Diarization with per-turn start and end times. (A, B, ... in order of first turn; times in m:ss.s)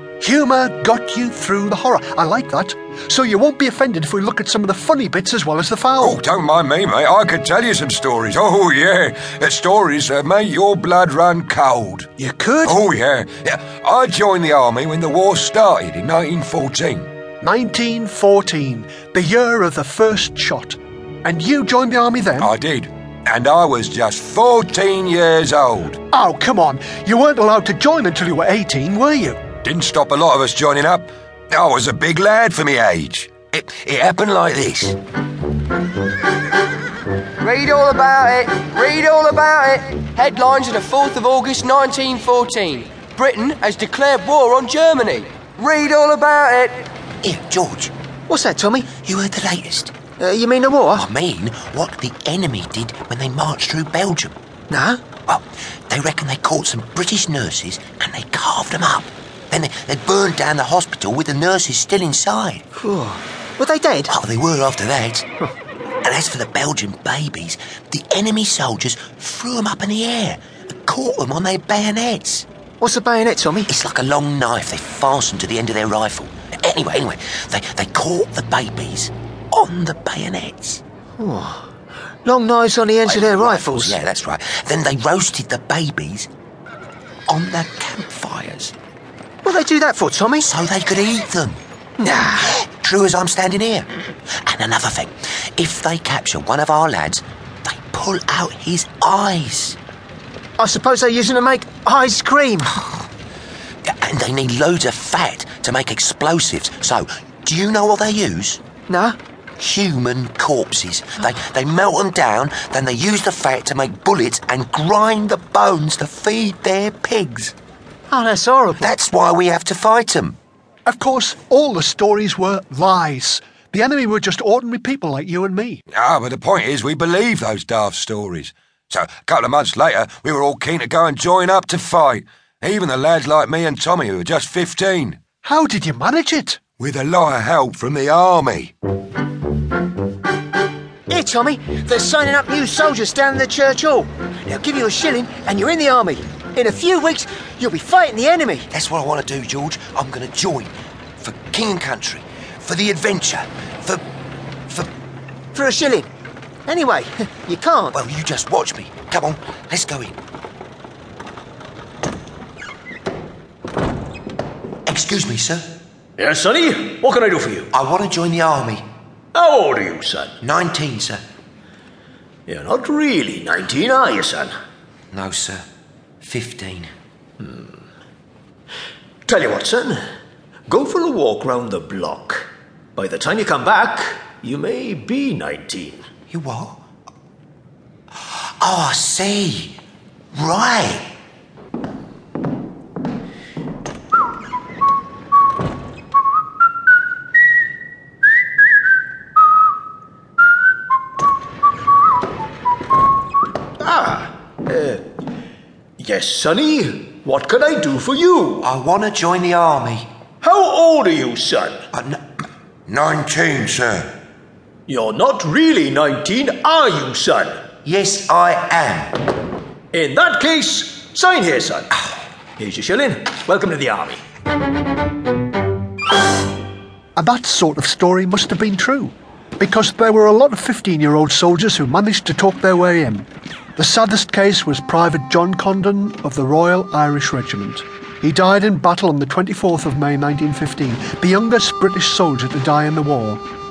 0:00.2-0:06.2 A
0:06.0-0:12.1 B
0:12.2-0:12.8 A
0:12.6-0:17.1 B
0:17.4-0:22.5 A
0:22.4-0:26.0 B
0:26.1-0:29.4 A
0:29.6-0:35.0 B
0:37.4-0:46.9 C
0:47.2-0:47.9 D
0:48.3-0:48.9 E
0:49.0-0:50.0 D
0:50.2-0:51.0 E
0:50.9-0:54.4 D
0:54.7-0:55.0 E
0:55.3-1:02.6 D
1:02.8-1:04.1 E
1:04.1-1:05.3 D
1:06.0-1:12.5 D
1:12.8-1:13.7 E
1:13.7-1:20.8 D
1:21.2-1:21.6 E
1:22.2-1:24.0 E
1:23.0-1:26.3 D
1:27.3-1:28.7 D
1:29.4-1:30.5 E
1:30.4-1:31.6 D
1:32.0-1:32.5 E
1:32.1-1:39.8 D
1:40.6-1:42.8 E
1:43.8-1:48.6 D
1:48.9-1:49.2 E
1:49.6-1:57.5 D
1:58.1-1:58.9 E
1:58.8-2:00.4 D
2:00.9-2:05.8 A
2:05.9-2:15.2 B
2:15.4-2:16.6 A
2:16.8-2:18.7 B
2:21.1-2:28.7 E
2:28.7-2:34.0 D
2:35.5-2:36.1 E
2:36.7-2:38.0 E
2:37.9-2:40.2 D
2:44.9-2:45.7 D
2:46.2-2:47.7 F
2:47.7-2:48.9 D
2:49.3-2:50.4 F
2:50.4-2:51.2 D
2:52.5-2:54.5 F
2:55.1-2:55.6 D
2:56.2-2:56.9 D
2:57.4-2:57.8 F
2:59.3-3:00.0 F
3:00.7-3:06.0 F
3:06.3-3:06.8 D
3:08.2-3:09.8 D
3:10.3-3:11.1 D
3:23.8-3:25.0 F
3:26.0-3:28.7 F
3:28.6-3:30.1 D
3:30.4-3:31.8 F
3:31.9-3:32.2 D
3:32.9-3:34.1 D
3:34.9-3:37.6 F
3:37.8-3:39.2 D
3:39.9-3:41.9 F
3:42.6-3:44.2 F
3:47.2-4:03.4 A